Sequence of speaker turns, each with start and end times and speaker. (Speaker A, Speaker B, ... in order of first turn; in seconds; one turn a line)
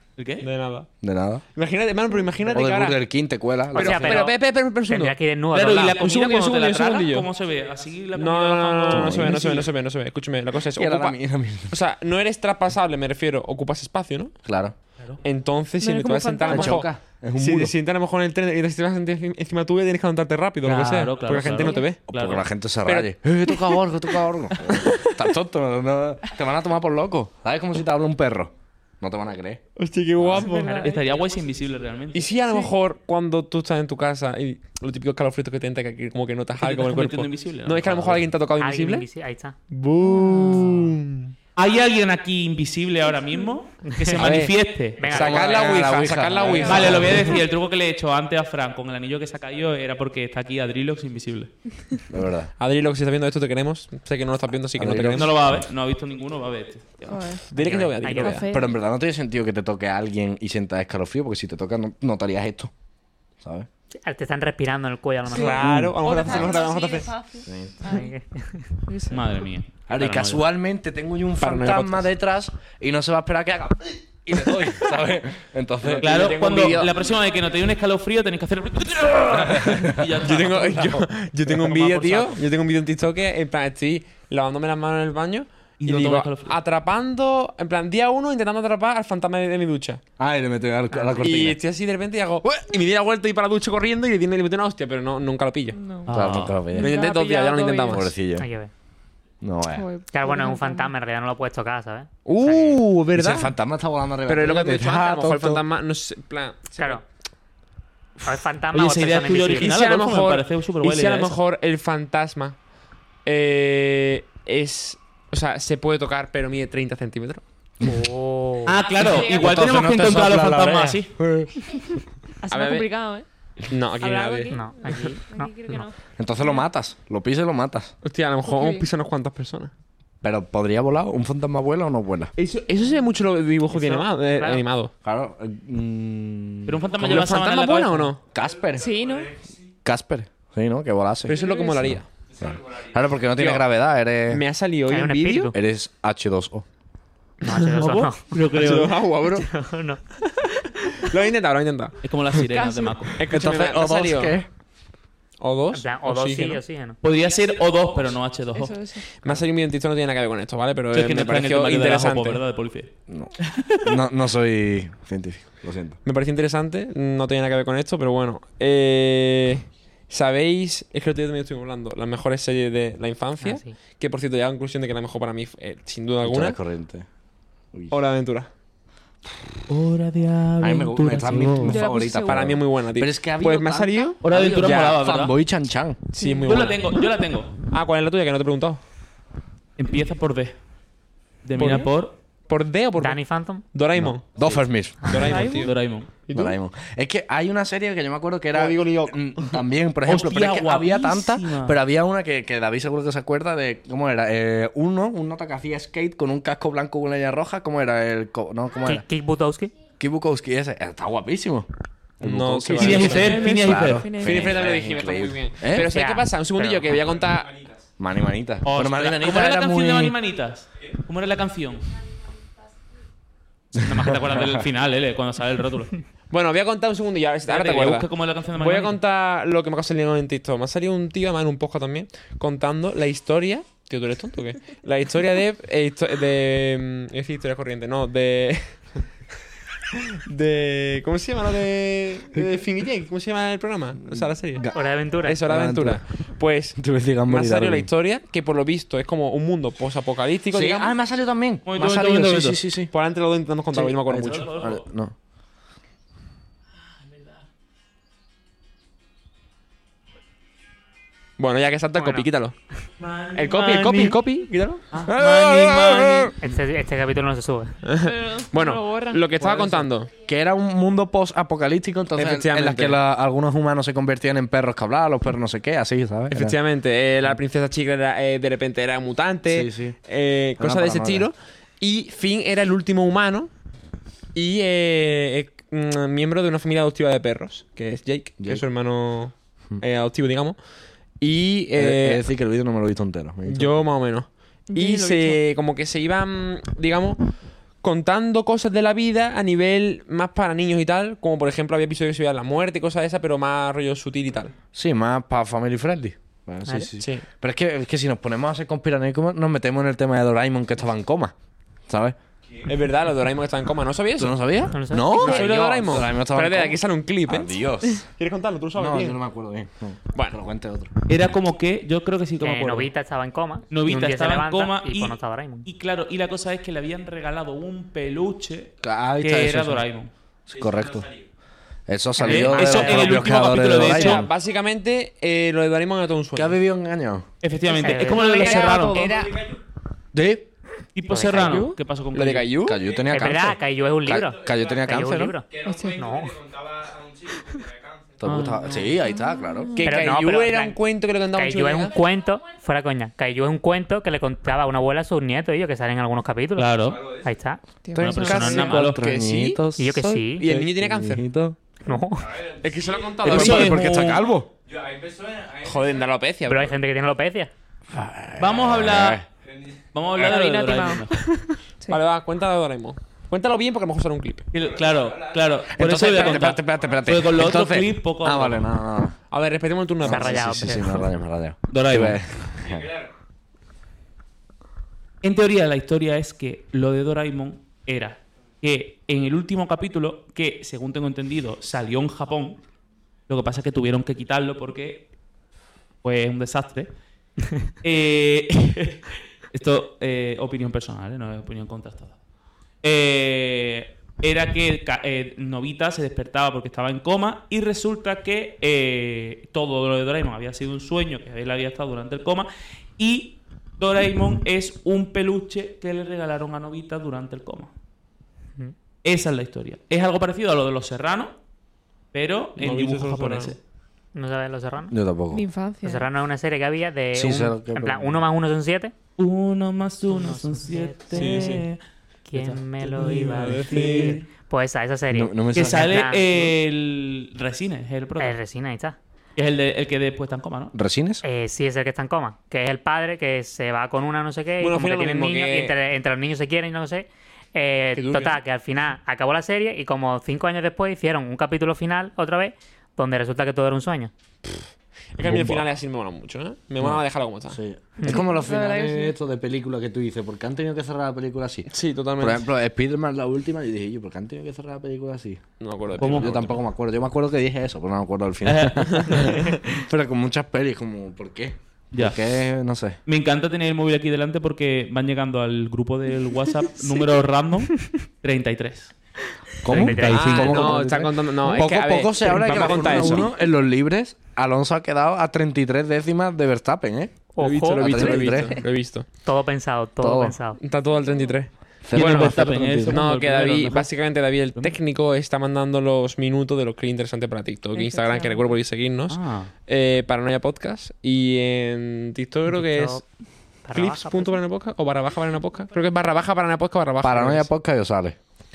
Speaker A: 0.2-0.5
Speaker B: 0.4-0.9
Speaker C: 1.0-1.4
Speaker B: 1.5-3.0
Speaker C: 2.5-4.2
Speaker B: 3.7-5.2
Speaker D: 3.7-6.0
Speaker A: 5.5-9.6
Speaker B: 5.8-7.3
Speaker B: 8.2-11.2
Speaker C: 8.9-9.7
Speaker C: 10.7-11.8
Speaker B: 11.7-14.4
Speaker C: 14.4-14.7
Speaker B: 15.2-22.0
Speaker E: 15.8-16.9
Speaker C: 16.5-17.7
Speaker A: 20.6-22.5
Speaker E: 21.4-21.9
Speaker C: 22.1-29.6
Speaker B: 22.9-23.7
Speaker B: 24.7-25.1
Speaker B: 29.8-30.9
Speaker C: 30.2-30.5
Speaker E: 30.4-31.1
Speaker A: 30.6-32.3
Speaker B: 32.1-39.0
Speaker E: 32.5-32.7
Speaker A: 36.6-38.3
Speaker D: 38.6-39.6
Speaker B: 39.7-41.3
Speaker E: 40.0-41.0
Speaker A: 41.5-45.0
Speaker D: 44.0-44.3
Speaker B: 44.2-44.5
Speaker D: 45.0-45.9
Speaker B: 45.0-47.3
Speaker C: 45.1-47.4
Speaker E: 46.5-47.4
Speaker A: 46.6-51.7
Speaker C: 52.1-52.5
Speaker B: 52.6-55.3
Speaker C: 54.8-55.6
Speaker A: 55.1-57.3
Speaker E: 57.1-57.5
Speaker B: 57.5-58.5
Speaker D: 57.5-58.4
Speaker E: 58.2-58.7
Speaker C: 58.5-62.7
Speaker C: 63.4-63.7
Speaker D: 64.0-65.7
Speaker B: 65.3-67.1
Speaker E: 65.3-68.1
Speaker C: 65.6-65.9
Speaker C: 67.4-67.8
Speaker D: 67.8-68.7
Speaker E: 68.9-69.2
Speaker A: 69.1-70.4
Speaker C: 69.9-76.7
Speaker B: 71.4-72.1
Speaker B: 75.8-76.9
Speaker A: 76.0-82.4
Speaker C: 79.3-79.9
Speaker B: 80.2-90.0
Speaker A: 85.8-86.5
Speaker C: 90.2-91.6
Speaker D: 90.9-91.2
Speaker B: 91.2-95.8
Speaker E: 95.7-96.2
Speaker A: 96.0-96.6
Speaker C: 96.1-97.0
Speaker E: 96.7-98.0
Speaker B: 96.7-98.1
Speaker C: 97.9-98.5
Speaker D: 98.3-98.7
Speaker C: 99.4-99.9
Speaker E: 99.7-100.9
Speaker D: 100.1-102.8
Speaker B: 102.2-103.5
Speaker C: 103.1-105.6
Speaker B: 104.3-107.0
Speaker D: 108.2-109.7
Speaker A: 108.7-111.4
Speaker B: 109.5-112.6
Speaker B: 113.2-117.4
Speaker D: 117.8-118.8
Speaker A: 118.7-121.1
Speaker C: 119.0-121.8
Speaker E: 119.0-119.6
Speaker E: 122.4-123.2
Speaker B: 122.5-122.9
Speaker B: 123.7-125.1
Speaker E: 124.0-126.7
Speaker D: 124.5-125.8
Speaker C: 126.2-127.9
Speaker B: 128.0-129.7
Speaker E: 128.4-128.9
Speaker C: 130.2-132.3
Speaker B: 132.4-134.9
Speaker D: 133.7-134.6
Speaker C: 135.0-137.1
Speaker A: 136.7-138.1
Speaker B: 137.0-138.2
Speaker C: 138.3-139.0
Speaker E: 138.8-139.3
Speaker C: 139.8-144.4
Speaker B: 141.2-142.1
Speaker E: 141.3-141.9
Speaker B: 143.3-143.7
Speaker B: 144.3-145.5
Speaker D: 144.9-145.5
Speaker C: 145.5-146.7
Speaker D: 147.4-148.4
Speaker B: 147.5-149.5
Speaker A: 148.3-148.9
Speaker D: 149.4-150.0
Speaker B: 150.9-152.0
Speaker A: 152.0-153.2
Speaker E: 152.4-153.1
Speaker B: 153.1-154.4
Speaker C: 153.3-154.5
Speaker B: 155.4-156.6
Speaker D: 155.7-157.0
Speaker A: 157.0-158.8
Speaker E: 158.5-159.1
Speaker B: 159.2-162.4
Speaker A: 160.9-162.9
Speaker C: 163.1-166.0
Speaker B: 166.0-176.6
Speaker D: 173.4-173.7
Speaker C: 176.2-177.1
Speaker B: 177.9-178.5
Speaker A: 179.7-181.8
Speaker C: 180.6-186.0
Speaker E: 181.6-182.5
Speaker B: 182.2-185.0
Speaker A: 184.2-185.3
Speaker B: 186.1-186.9
Speaker E: 186.2-187.0
Speaker A: 186.4-187.5
Speaker B: 187.6-188.8
Speaker A: 189.8-190.6
Speaker A: 191.4-192.2
Speaker B: 191.6-191.9
Speaker B: 192.5-195.7
Speaker D: 193.0-193.6
Speaker C: 194.0-195.3
Speaker E: 195.1-195.7
Speaker A: 195.6-196.1
Speaker B: 196.2-196.6
Speaker C: 196.3-209.0
Speaker B: 198.5-199.6
Speaker A: 200.1-201.8
Speaker D: 208.8-209.7
Speaker C: 210.0-211.7
Speaker C: 212.2-215.9
Speaker B: 212.2-213.3
Speaker A: 212.8-214.1
Speaker E: 213.0-214.6
Speaker B: 214.2-217.6
Speaker D: 215.8-217.0
Speaker C: 218.0-220.2
Speaker A: 218.6-221.9
Speaker A: 223.8-226.0
Speaker C: 223.8-224.6
Speaker B: 226.3-238.8
Speaker A: 227.5-229.0
Speaker B: 240.1-250.9
Speaker C: 244.1-244.3
Speaker D: 244.6-245.4
Speaker C: 245.4-246.0
Speaker C: 246.8-247.9
Speaker C: 250.5-252.9
Speaker A: 251.7-252.6
Speaker B: 252.9-254.5
Speaker C: 253.7-255.1
Speaker A: 254.1-254.9
Speaker B: 261.4-262.5
Speaker D: 261.9-262.3
Speaker A: 263.0-264.2
Speaker B: 263.4-264.8
Speaker A: 264.9-266.3
Speaker C: 265.0-266.3
Speaker D: 266.4-267.8
Speaker B: 267.8-270.1
Speaker E: 268.0-269.3
Speaker C: 269.4-276.6
Speaker B: 272.1-273.0
Speaker B: 276.3-283.5
Speaker C: 279.5-280.0
Speaker C: 280.6-281.3
Speaker B: 284.4-290.6
Speaker C: 288.4-288.6
Speaker B: 291.2-292.2
Speaker C: 291.7-293.8
Speaker B: 293.4-297.2
Speaker E: 294.7-295.4
Speaker B: 297.8-304.5
Speaker C: 304.7-311.3
Speaker B: 307.0-307.2
Speaker C: 311.9-312.2
Speaker B: 312.7-314.5
Speaker C: 314.2-318.1
Speaker D: 314.7-315.4
Speaker B: 315.1-317.5
Speaker B: 318.2-319.2
Speaker C: 318.7-320.9
Speaker A: 321.1-322.9
Speaker D: 322.4-325.7
Speaker A: 323.7-330.1
Speaker C: 328.8-329.9
Speaker C: 330.5-331.1
Speaker C: 331.9-334.3
Speaker D: 332.2-333.2
Speaker A: 332.2-334.2
Speaker B: 332.6-336.6
Speaker C: 336.3-337.2
Speaker A: 337.4-339.1
Speaker D: 337.7-338.9
Speaker B: 337.9-339.5
Speaker E: 338.2-339.3
Speaker F: 339.1-339.5
Speaker C: 340.1-340.5
Speaker A: 340.9-342.5
Speaker D: 341.1-341.7
Speaker E: 341.3-341.8
Speaker B: 342.1-342.8
Speaker C: 342.6-345.4
Speaker D: 343.1-346.4
Speaker F: 345.5-348.2
Speaker E: 345.6-346.1
Speaker C: 348.2-349.9
Speaker A: 348.2-348.9
Speaker E: 349.0-350.0
Speaker B: 349.8-352.0
Speaker D: 349.8-350.8
Speaker D: 351.3-357.6
Speaker A: 356.6-357.0
Speaker F: 356.9-357.3
Speaker E: 357.8-358.7
Speaker C: 357.9-361.6
Speaker A: 358.0-359.1
Speaker B: 358.2-359.6
Speaker D: 359.8-360.4
Speaker B: 360.4-361.2
Speaker D: 361.9-362.4
Speaker F: 362.2-362.9
Speaker B: 362.6-363.9
Speaker C: 363.2-364.5
Speaker A: 363.2-364.2
Speaker F: 364.6-365.9
Speaker B: 365.6-366.8
Speaker D: 366.5-367.5
Speaker C: 367.9-369.2
Speaker A: 368.4-369.2
Speaker F: 369.5-369.8
Speaker A: 369.9-371.2
Speaker E: 370.2-372.0
Speaker B: 371.9-374.5
Speaker A: 374.5-378.7
Speaker F: 374.6-375.4
Speaker C: 375.7-379.2
Speaker B: 379.3-380.8
Speaker C: 380.0-383.0
Speaker D: 380.0-381.1
Speaker A: 381.7-382.2
Speaker A: 385.2-392.6
Speaker A: 393.3-395.1
Speaker A: 396.0-396.9
Speaker A: 397.8-402.1
Speaker A: 402.8-417.7
Speaker A: 419.0-421.4
Speaker A: 422.1-423.6
Speaker B: 422.6-423.6
Speaker D: 424.1-425.0
Speaker C: 424.9-425.4
Speaker E: 425.3-426.1
Speaker D: 425.8-428.9
Speaker C: 427.1-428.2
Speaker A: 429.2-431.8
Speaker D: 430.1-431.4
Speaker B: 431.1-431.6
Speaker D: 432.3-436.6
Speaker A: 432.3-434.3
Speaker B: 433.1-434.2
Speaker C: 435.1-436.1
Speaker A: 435.5-438.4
Speaker D: 438.2-439.0
Speaker A: 439.4-440.7
Speaker C: 440.7-441.2
Speaker D: 441.2-454.1
Speaker B: 444.6-445.7
Speaker B: 447.9-448.4
Speaker B: 455.1-457.6
Speaker C: 455.2-455.7
Speaker C: 456.8-473.0
Speaker D: 458.0-458.3
Speaker E: 458.0-459.2
Speaker B: 461.7-462.5
Speaker B: 465.6-466.6
Speaker A: 466.0-466.3
Speaker A: 468.4-469.3
Speaker B: 468.9-469.4
Speaker A: 471.9-472.2
Speaker A: 473.1-478.9
Speaker C: 479.6-487.1
Speaker D: 479.7-480.8
Speaker A: 479.7-480.5
Speaker B: 480.0-483.3
Speaker D: 487.3-488.4
Speaker B: 487.4-489.1
Speaker C: 487.7-488.6
Speaker D: 489.2-490.6
Speaker C: 490.0-490.4
Speaker B: 490.6-503.1
Speaker C: 491.8-493.0
Speaker A: 491.9-493.9
Speaker E: 497.7-498.6
Speaker A: 499.1-499.5
Speaker D: 502.5-503.0
Speaker D: 503.6-504.4
Speaker B: 503.7-507.5
Speaker C: 507.0-508.2